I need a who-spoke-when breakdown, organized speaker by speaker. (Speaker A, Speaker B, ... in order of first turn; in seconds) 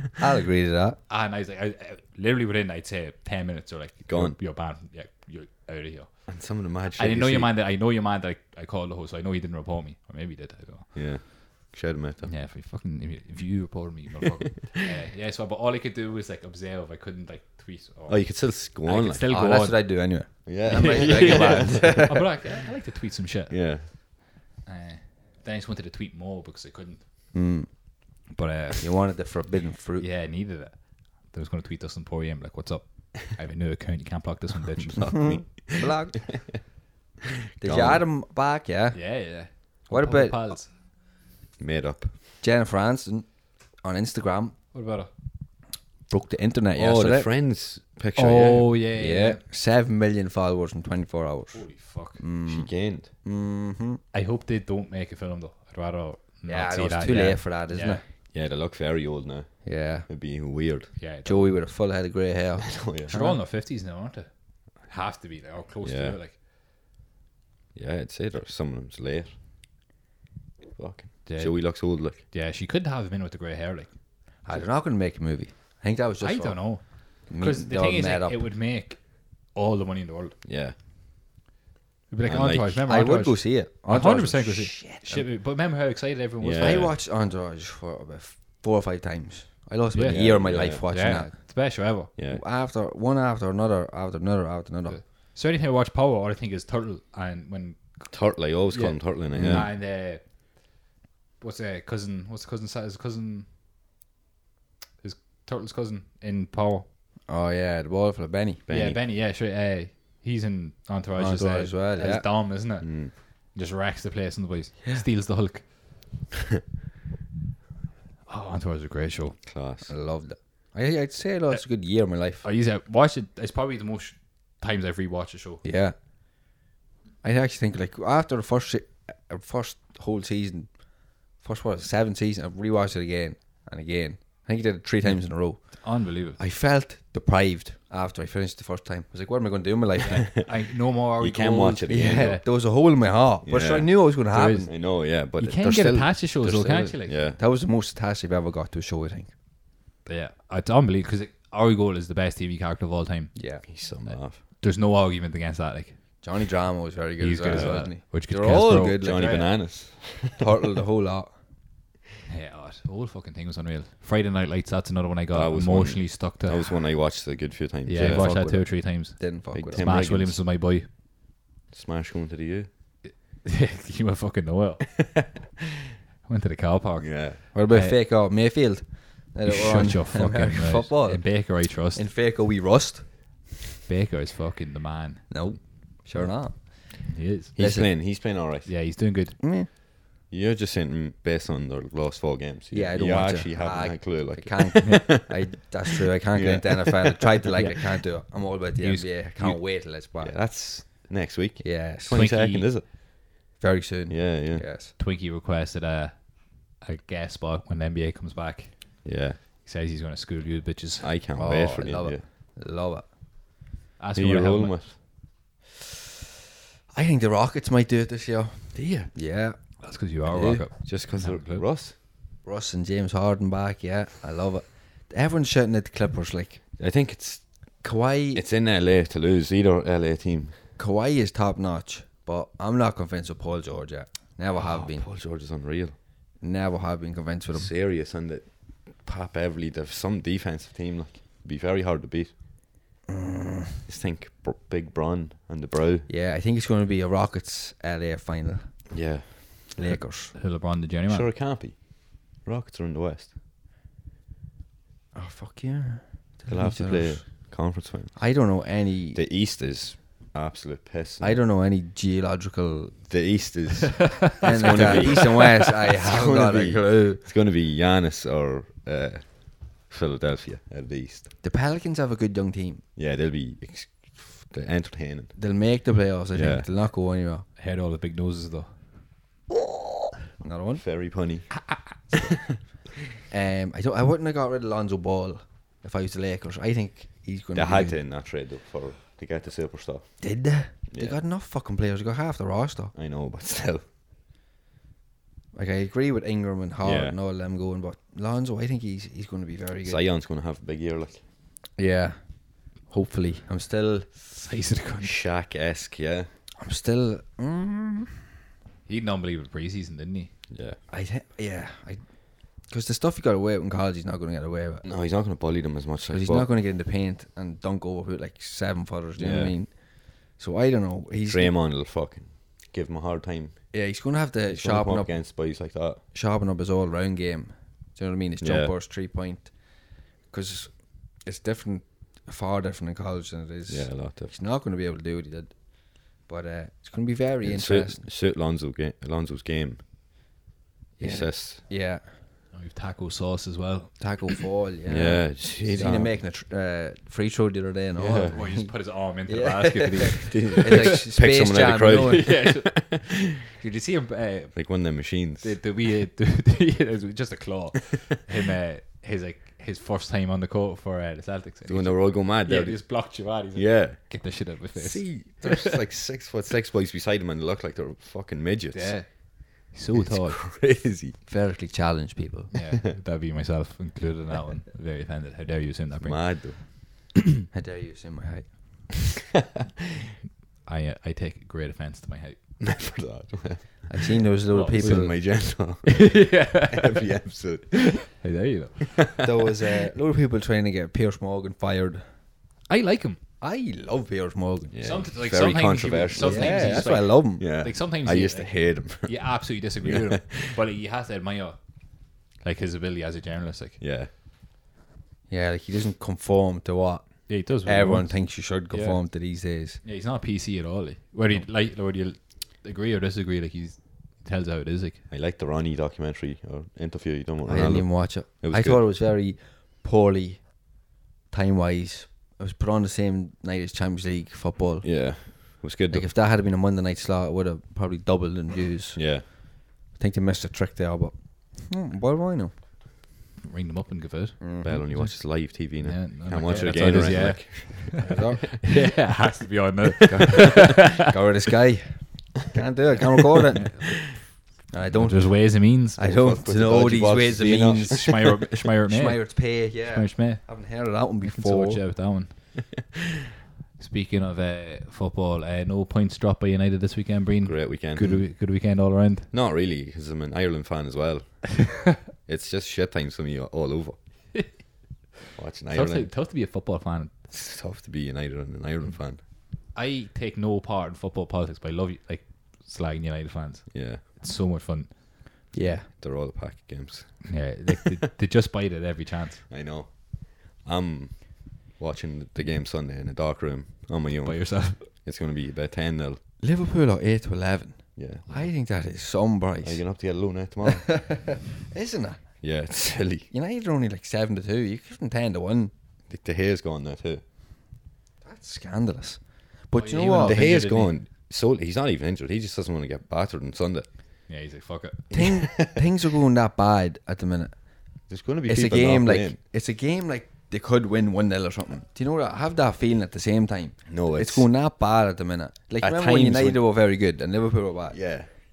Speaker A: 0.2-1.0, 19.3-22.3, 27.3-27.8, 28.8-30.1, 35.1-36.5, 37.6-39.3, 39.9-40.5, 42.4-44.6, 46.1-47.3, 48.9-54.0, 56.5-58.0, 59.6-60.1, 61.2-63.4, 74.5-76.7, 77.3-78.4, 82.9-85.3, 86.5-91.3, 92.0-95.0, 99.3-99.7, 107.3-108.6, 111.2-112.3, 119.9-122.5, 125.6-126.0, 127.2-140.4, 141.9-144.7, 146.4-149.3, 153.3-153.6, 156.2-159.7, 160.4-161.3, 168.0-169.9, 177.5-183.1, 185.3-187.9, 189.4-189.7, 192.7-200.9, 201.6-202.3, 203.6-204.9, 211.3-213.1, 216.9-220.7, 222.4-226.7, 227.8-228.4, 230.8-235.1, 236.4-237.7, 243.1-243.8, 246.1-249.2, 249.7-250.3, 255.1-259.2, 261.2-263.0, 264.4-267.2, 271.4-272.8, 275.4-277.5, 280.4-280.8, 283.3-288.0, 290.2-292.9, 295.5-300.0, 301.8-304.2, 306.6-308.2, 310.9-312.0, 312.5-314.9, 316.1-321.5, 323.7-325.4, 326.1-338.0, 341.0-342.0, 344.0-348.7, 349.3-352.4, 371.3-372.5, 377.5-378.9, 383.9-385.2, 389.2-392.1, 393.4-394.7, 396.2-397.5, 405.3-409.8, 417.5-432.5, 434.4-435.1, 436.5-437.2, 437.9-438.6, 440.1-443.8, 444.7-448.2, 448.9-451.8, 475.5-475.9, 486.4-489.8, 490.7-492.2, 493.3-495.7, 498.2-500.5, 505.1-507.6, 508.5-518.1
Speaker B: 1.1-11.4, 12.2-24.1, 24.6-27.3, 28.3-28.9, 30.0-35.2, 38.9-40.7, 44.7-45.1, 48.1-49.4, 51.5-52.2, 54.1-58.0, 61.0-61.6, 63.1-66.4, 71.3-73.9, 76.2-80.4, 82.1-86.9, 89.9-92.1, 94.9-100.2, 101.4-103.5, 105.0-106.9, 108.7-115.7, 118.3-119.4, 122.4-125.6, 135.1-136.4, 140.4-142.4, 144.3-147.2, 150.1-156.0, 157.2-159.5, 162.3-166.8, 167.8-170.9, 173.0-175.2, 176.3-178.0, 179.5-182.0, 183.9-185.3, 187.1-188.1, 188.7-189.4, 194.8-195.1, 198.8-199.5, 202.1-202.7, 205.0-211.1, 214.0-214.8, 219.8-221.7, 250.3-251.3, 264.6-265.5, 277.6-278.7, 304.3-305.2, 308.9-310.3, 342.5-344.1, 348.3-351.0, 351.9-354.7, 355.4-365.7, 368.7-370.4, 372.5-376.9, 380.6-382.4, 384.5-387.1, 387.8-389.1, 392.7-393.2, 394.8-401.6, 402.4-403.8, 407.3-408.2, 408.7-409.0, 409.8-415.0, 433.4-434.4, 435.0-438.0, 438.5-441.0, 443.6-444.0, 444.9-446.0, 447.9-450.6, 451.2-452.6, 453.8-459.3, 465.7-467.1, 469.7-474.9, 477.3-479.4, 484.2-484.8, 499.7-500.9, 504.3-505.1
Speaker C: 4.1-4.4, 6.3-7.5, 10.9-12.3, 18.1-19.2, 20.5-22.0, 23.5-23.9, 35.0-35.9, 37.6-38.0, 41.6-42.1, 46.7-48.8, 52.5-53.1, 58.3-61.0, 62.7-63.1, 65.8-66.2, 67.8-69.4, 70.8-72.2, 80.5-80.8, 82.2-82.8, 86.4-87.0, 90.1-90.8, 92.2-92.4, 98.1-99.7, 108.7-109.0, 112.8-113.1, 119.5-119.9, 141.2-142.4, 143.4-147.4, 153.7-154.4, 157.5-160.5, 165.3-168.6, 169.5-170.4, 171.7-172.7, 177.0-177.4, 187.6-188.7, 190.3-195.3, 196.3-197.7, 200.2-202.9, 204.1-204.7, 209.0-209.4, 211.0-212.2, 214.2-215.0, 218.7-219.1, 220.4-222.0, 226.8-227.8, 228.3-230.6, 234.5-235.9, 237.5-242.4, 243.9-246.1, 248.9-249.8, 251.1-253.3, 256.5-258.3, 259.1-261.4, 263.1-271.3, 273.0-275.4, 276.3-276.7, 280.7-282.6, 287.6-291.2, 292.9-293.8, 296.8-297.2, 299.8-301.2, 305.0-306.3, 310.5-310.8, 314.8-316.5, 319.2-319.6, 321.2-323.7, 324.5-326.0, 328.4-328.7, 333.7-334.4, 337.4-339.8, 341.0-341.6, 344.9-346.1, 348.0-348.4, 350.2-353.2, 354.5-355.6, 361.7-369.2, 369.9-371.2, 376.0-376.6, 382.6-388.2, 394.7-400.6, 403.8-404.1, 415.1-418.9, 424.8-426.1, 428.9-429.3, 434.6-438.2, 440.1-440.7, 446.0-448.4, 457.4-458.3, 459.3-464.5, 465.4-466.1, 467.3-469.2, 473.7-474.0, 475.9-477.5, 479.5-486.2, 488.0-488.4, 489.6-491.3, 492.4-493.3, 496.1-497.2, 500.2-503.9, 505.1-505.9, 508.1-509.4, 513.9-514.5, 515.8-516.6, 517.9-518.3